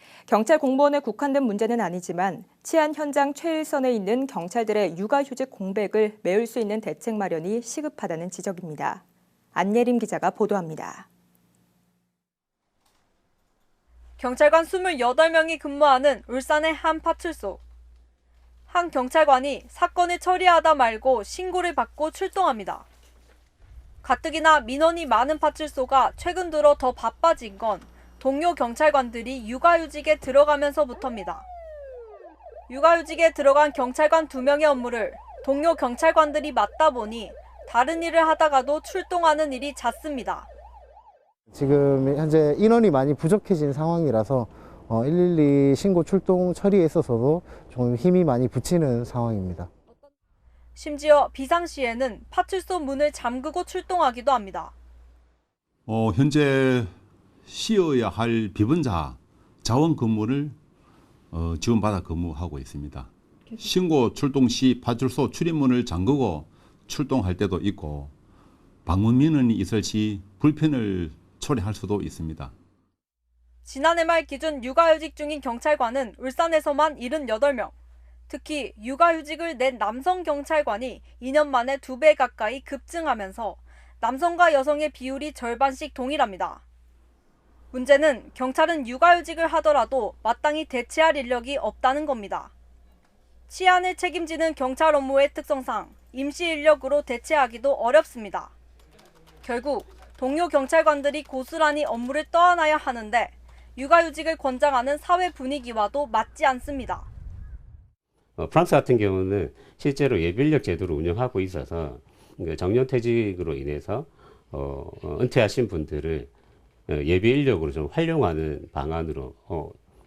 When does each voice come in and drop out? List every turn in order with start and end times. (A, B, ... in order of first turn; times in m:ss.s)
0:00.3-0:09.0 A
0:09.5-0:11.1 A
0:14.2-0:17.6 B
0:18.7-0:22.9 B
0:24.0-0:31.4 B
0:32.7-0:40.5 B
0:41.5-0:49.7 C
0:50.8-0:54.7 B
0:55.9-0:56.9 D
0:57.5-1:00.6 D
1:01.3-1:08.1 D
1:08.8-1:12.5 D
1:13.6-1:17.7 B
1:18.3-1:26.6 B
1:27.7-1:32.5 B
1:33.5-1:38.5 B
1:39.4-1:47.1 B
1:48.4-1:56.3 E
1:56.9-1:59.8 E